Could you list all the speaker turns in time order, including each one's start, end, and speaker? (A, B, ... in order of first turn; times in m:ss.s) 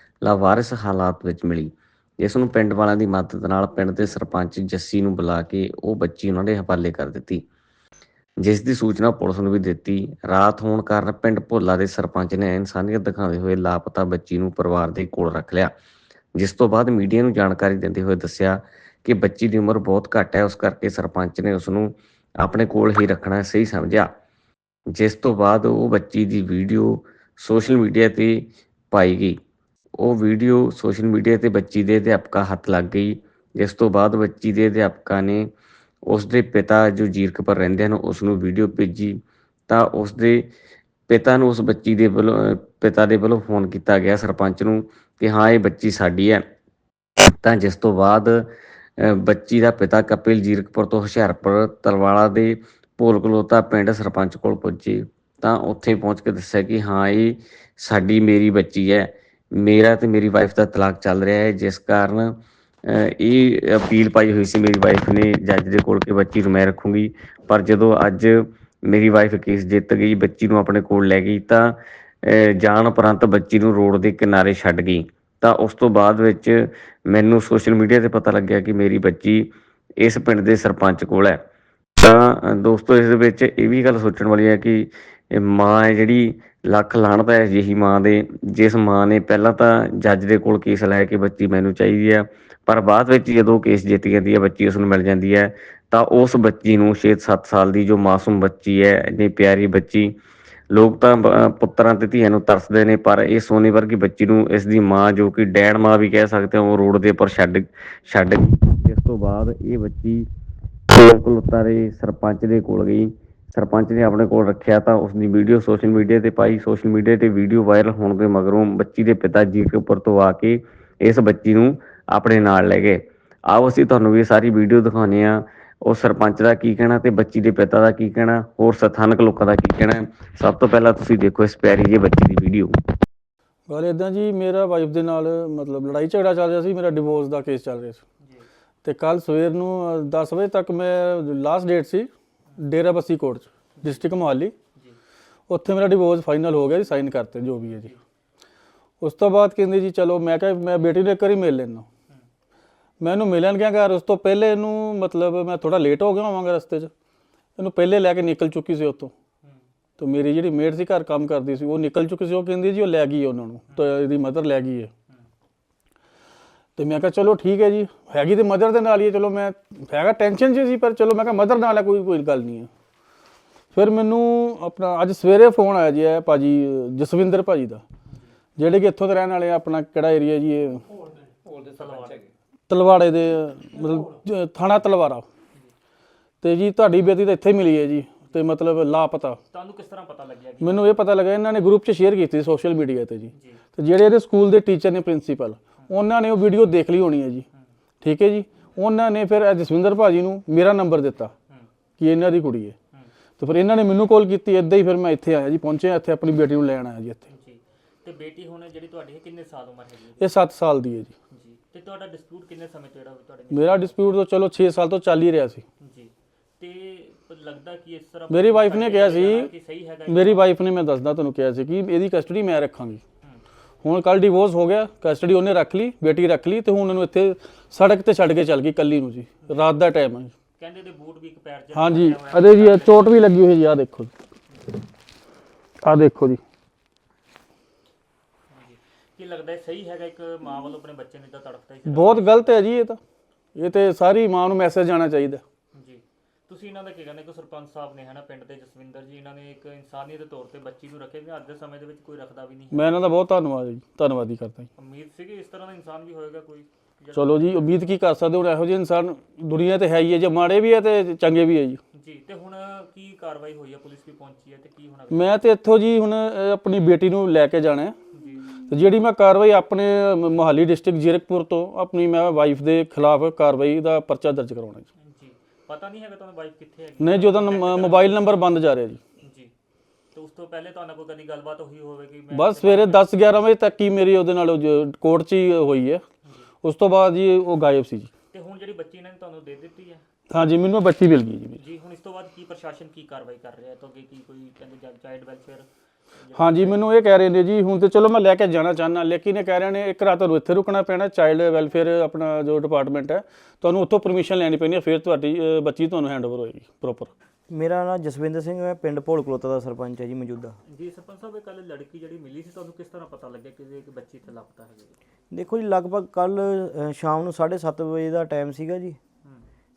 0:00.2-0:07.4 A
0:08.4-0:15.7 A
0:16.4-0:24.1 A
0:24.9-0:29.4 A
0:30.0-0:35.4 A
0:36.1-0:39.1 A
0:39.7-0:40.4 A
0:41.1-0:46.4 A
0:47.4-0:48.4 A
0:49.0-1:02.4 A
1:02.9-1:08.3 A
1:08.9-1:11.6 A
1:12.2-1:19.5 A
1:20.0-1:21.4 A
1:22.0-1:40.1 A
1:40.7-1:50.2 A
1:50.9-2:12.7 A
2:13.7-2:18.0 B
2:18.2-2:18.5 C
2:18.8-2:24.5 B
2:23.8-2:24.1 C
2:25.5-2:27.9 B
2:29.0-2:31.8 B
2:33.0-2:36.9 B
2:37.6-2:39.1 B
2:40.0-2:44.9 B
2:43.7-2:44.0 C
2:46.8-2:52.7 B
2:53.7-2:57.8 B
2:58.6-3:00.8 B
3:01.4-3:02.3 C
3:02.7-3:05.2 B
3:06.4-3:09.4 B
3:09.5-3:10.9 C
3:10.6-3:17.4 B
3:13.3-3:13.6 C
3:18.0-3:21.3 B
3:22.0-3:22.7 B
3:23.4-3:27.2 B
3:27.3-3:30.4 C
3:30.2-3:31.1 B
3:31.3-3:33.9 C
3:33.5-3:35.6 B
3:35.8-3:40.5 C
3:38.3-3:39.5 B
3:40.0-3:43.0 B
3:43.8-3:50.3 B
3:50.6-3:53.1 C
3:51.7-3:54.1 B
3:54.5-3:54.8 C
3:55.8-3:56.4 B
3:58.5-4:02.5 C
4:01.9-4:03.0 B
4:03.6-4:05.4 B
4:05.7-4:13.1 C
4:12.7-4:14.7 B
4:14.8-4:17.8 C
4:17.1-4:21.8 B
4:21.9-4:25.4 C
4:25.1-4:27.9 B
4:28.1-4:28.6 C
4:28.7-4:34.8 B
4:35.0-4:38.4 C
4:37.0-4:39.0 B
4:39.2-4:39.5 C
4:40.1-4:43.1 C
4:42.3-4:46.0 B
4:46.2-4:46.5 C
4:46.6-4:48.1 B
4:48.3-4:50.0 C
4:50.3-4:51.6 B
4:51.6-4:56.8 C
4:56.3-5:07.1 B
5:07.5-5:10.6 D
5:10.6-5:15.0 C
5:15.3-5:19.0 D
5:19.2-5:19.5 C